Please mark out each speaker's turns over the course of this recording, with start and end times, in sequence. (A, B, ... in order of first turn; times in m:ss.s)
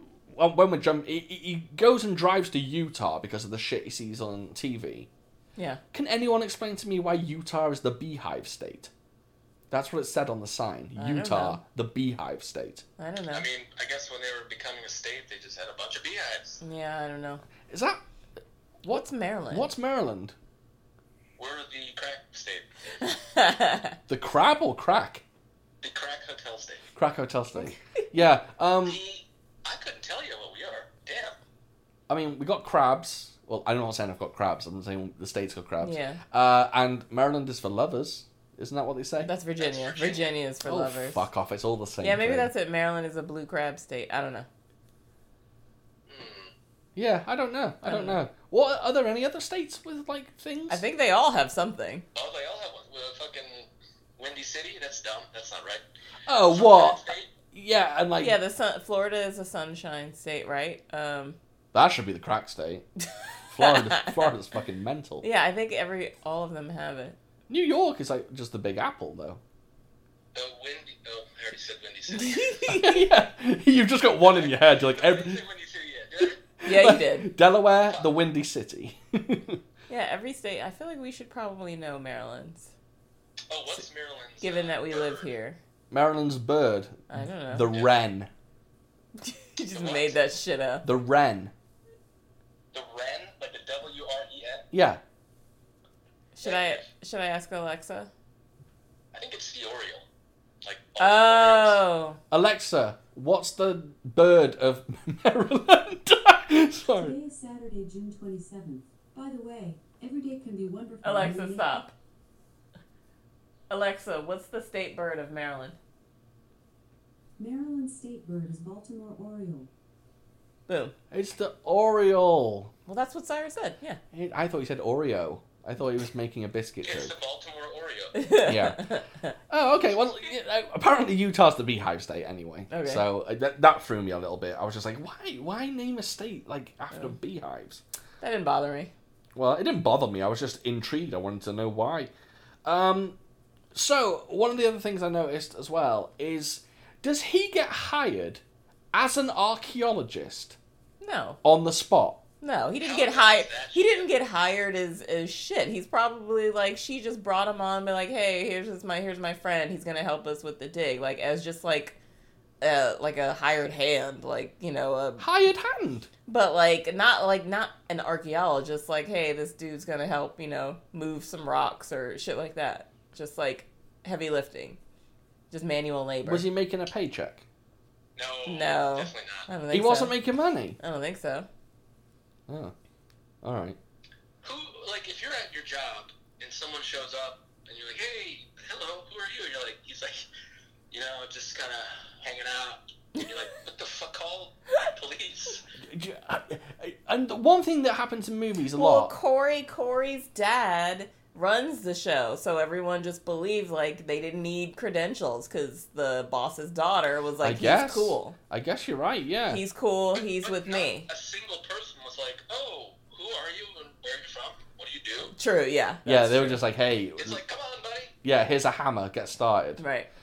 0:00.3-0:05.1 A
0:05.6-0:05.8 B
0:05.9-0:08.9 A
0:09.7-0:12.8 A
0:11.0-0:11.6 B
0:13.0-0:13.5 B
0:13.3-0:16.6 C
0:16.6-0:17.4 B
0:17.7-0:18.0 A
0:18.8-0:20.3 A
0:18.9-0:19.7 B
0:21.4-0:23.0 C
0:23.0-0:24.0 B
0:24.1-0:25.2 A
0:25.8-0:26.8 C
0:27.0-0:29.0 A
0:28.8-0:31.4 C
0:32.1-0:39.3 A
0:35.8-0:36.2 B
0:39.2-0:41.3 B
0:39.6-0:40.3 C
0:40.6-0:42.5 A
0:42.0-0:44.5 B
0:46.1-0:46.5 C
0:47.0-0:50.8 A
0:47.8-0:48.2 B
0:50.7-0:52.0 B
0:52.1-0:55.8 C
0:56.3-0:58.4 A
0:56.5-0:57.3 C
0:58.2-1:01.4 B
1:01.7-1:02.9 A
1:03.5-1:05.2 A
1:03.5-1:04.2 B
1:05.2-1:07.2 B
1:07.5-1:09.4 A
1:10.3-1:12.6 C
1:12.1-1:13.0 B
1:12.7-1:15.4 A
1:14.2-1:16.4 C
1:16.6-1:19.6 A
1:16.6-1:17.3 B
1:19.9-1:22.7 B
1:23.5-1:25.3 C
1:24.4-1:25.6 B
1:25.9-1:28.3 A
1:27.1-1:27.7 B
1:29.2-1:30.8 B
1:29.7-1:30.2 C
1:30.8-1:31.5 A
1:32.7-1:34.7 C
1:34.7-1:35.0 A
1:36.4-1:38.1 B
1:36.4-1:36.8 C
1:39.1-1:40.0 C
1:40.6-1:41.8 C
1:41.0-1:42.2 B
1:42.3-1:47.2 A
1:47.0-1:51.8 D
1:51.0-1:51.9 B
1:53.7-1:55.8 B
1:57.4-1:59.7 D
2:00.7-2:00.9 B
2:01.1-2:02.7 A
2:02.9-2:04.0 B
2:04.1-2:07.1 A
2:06.8-2:08.2 C
2:08.2-2:09.3 B
2:08.4-2:08.9 A
2:09.5-2:17.8 A
2:12.7-2:13.0 B
2:18.2-2:18.9 B
2:19.4-2:22.1 A
2:22.6-2:23.1 A
2:23.7-2:28.4 A
2:28.9-2:30.6 A
2:31.0-2:31.4 B
2:31.4-2:32.2 A
2:32.4-2:42.0 B
2:32.8-2:34.1 C
2:42.6-2:45.2 B
2:45.2-2:46.1 A
2:46.3-2:54.8 B
2:55.5-2:56.4 B
2:56.2-2:57.4 A
2:58.2-2:59.5 C
2:58.5-3:00.1 B
2:59.7-3:00.8 A
3:00.8-3:01.5 B
3:02.5-3:02.7 A
3:03.4-3:03.8 A
3:04.4-3:10.3 C
3:10.9-3:15.6 C
3:15.9-3:19.1 A
3:18.8-3:28.4 B
3:27.4-3:29.6 A
3:29.5-3:31.1 B
3:30.1-3:35.3 C
3:35.4-3:36.6 B
3:36.1-3:37.4 A
3:37.2-3:38.1 C
3:38.2-3:39.8 A
3:39.8-3:40.1 B